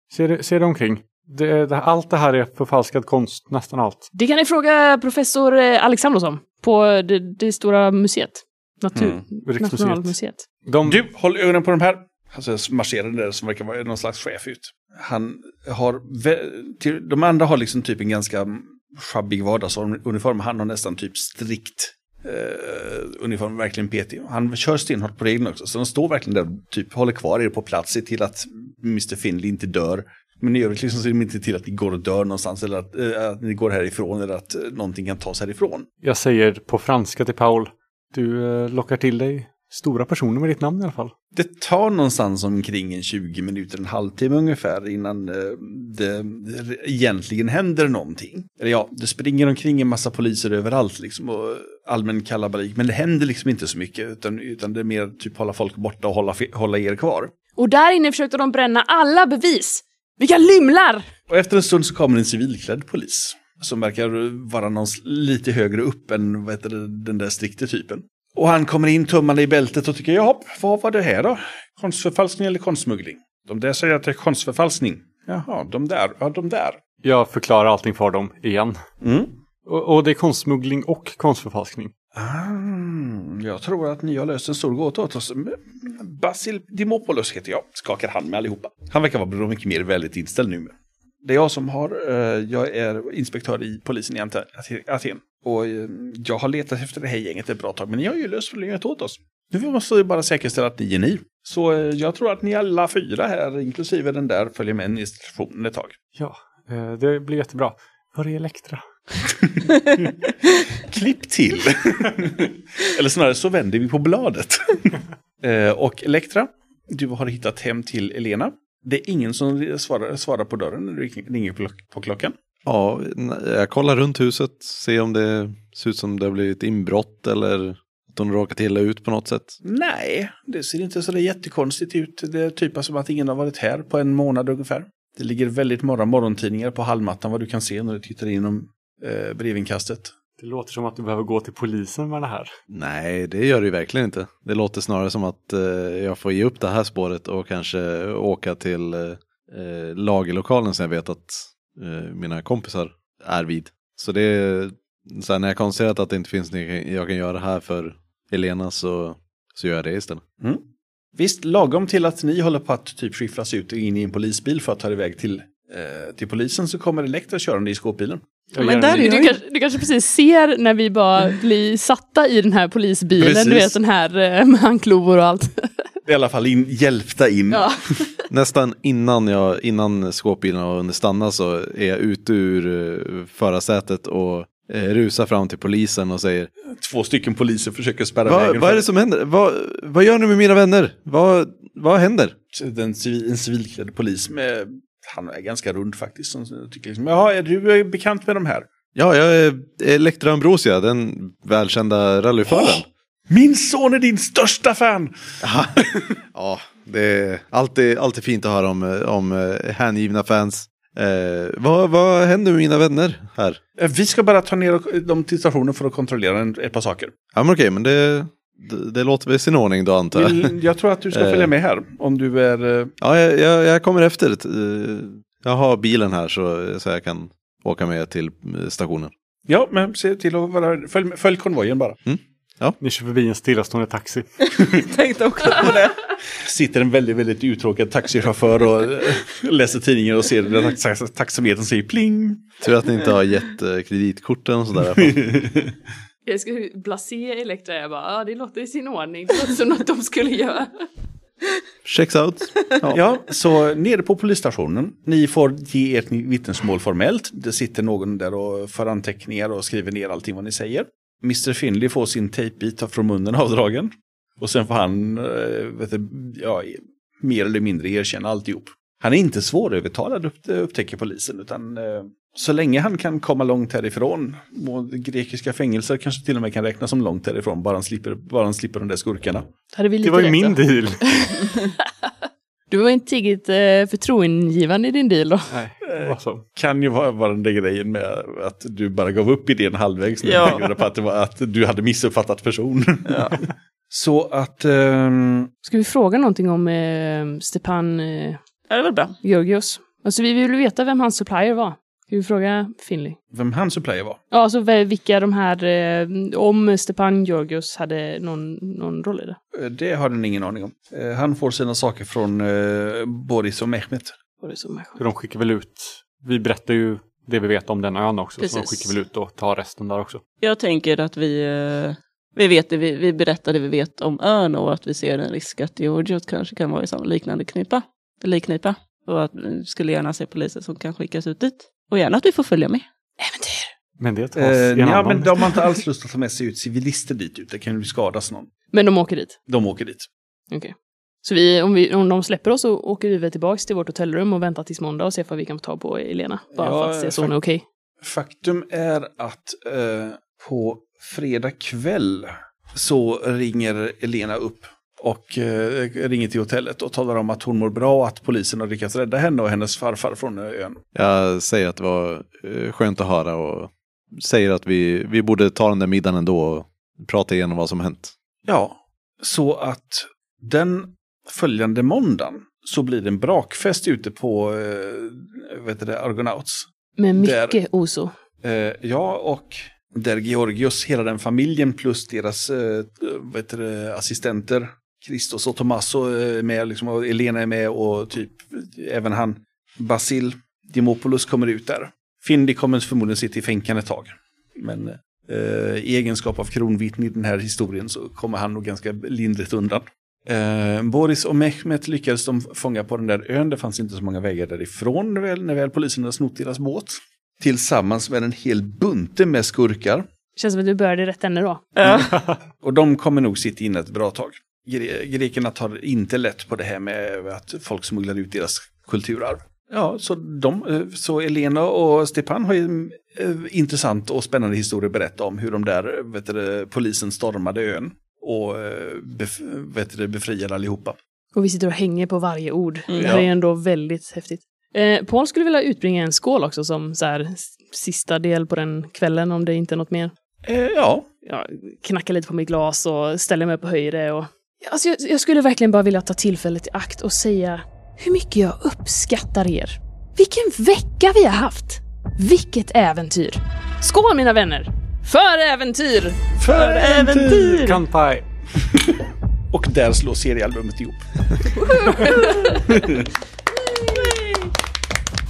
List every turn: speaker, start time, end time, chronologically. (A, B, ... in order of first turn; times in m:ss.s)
0:00.1-0:04.1 A
0:04.1-0:10.5 B
0:09.4-0:11.0 A
0:10.9-0:35.9 C
0:36.0-0:41.1 A
0:41.3-0:57.3 C
0:57.6-1:01.1 B
1:01.3-1:16.8 C
1:17.0-1:18.8 A
1:19.0-1:19.4 C
1:19.6-1:21.9 A
1:22.1-1:46.0 C
1:46.2-1:48.8 A
1:49.5-1:50.1 C
1:50.8-2:02.3 C
2:02.6-2:09.6 D
2:09.6-2:20.1 C
2:20.4-2:22.5 A
2:22.7-2:40.2 D
2:41.2-2:48.2 C
2:48.5-2:49.3 A
2:48.6-2:49.4 E
2:48.9-2:55.7 B
2:53.2-2:53.8 C
2:56.1-2:57.7 C
2:57.5-2:58.1 B
2:58.3-3:06.5 D
3:06.8-3:08.8 C
3:08.3-3:12.4 D
3:12.5-3:18.7 C
3:19.0-3:22.8 D
3:22.5-3:26.1 C
3:25.4-3:33.6 D
3:33.8-3:37.1 C
3:37.3-3:40.5 D
3:40.1-3:42.9 C
3:41.1-3:41.5 D
3:43.0-3:49.1 D
3:49.5-3:52.0 C
3:52.1-3:52.8 D
3:52.8-3:54.3 A
3:54.7-3:56.1 E
3:56.4-4:02.5 C
4:02.6-4:05.4 D
4:05.0-4:05.7 C
4:06.2-4:10.7 B
4:11.8-4:13.0 D
4:12.9-4:39.5 C
4:39.7-4:41.9 B
4:40.0-4:41.0 A
4:42.7-4:45.5 B
4:45.5-4:46.5 A
4:45.8-4:55.5 C
4:50.2-4:50.8 E
4:53.1-4:53.4 E
4:55.6-4:58.4 B
4:58.7-4:59.2 E
4:59.2-5:03.2 B
5:03.3-5:04.2 C
5:04.3-5:09.4 B
5:09.5-5:14.1 C
5:14.4-5:15.0 B
5:15.0-5:20.2 A
5:18.4-5:18.9 E
5:20.4-5:32.8 E
5:33.2-5:33.7 B
5:34.0-5:35.6 A
5:34.4-5:38.5 C
5:38.7-5:39.4 B
5:39.5-5:40.1 C
5:40.5-5:47.6 B
5:46.6-5:47.3 C
5:48.0-6:00.8 C
6:00.9-6:08.1 D
6:08.5-6:17.6 C
6:17.0-6:18.1 B
6:18.4-6:50.1 C
6:50.4-6:51.7 B
6:51.8-6:52.2 E
6:52.6-7:11.0 C
7:11.3-7:20.1 B
7:12.9-7:13.2 E
7:13.0-7:13.3 C
7:20.5-7:21.1 C
7:21.2-7:36.2 B
7:36.4-7:37.6 C
7:36.5-7:37.8 E
7:37.6-7:38.2 A
7:38.6-7:39.0 C
7:39.5-7:41.2 C
7:41.6-7:42.6 B
7:42.5-7:43.1 C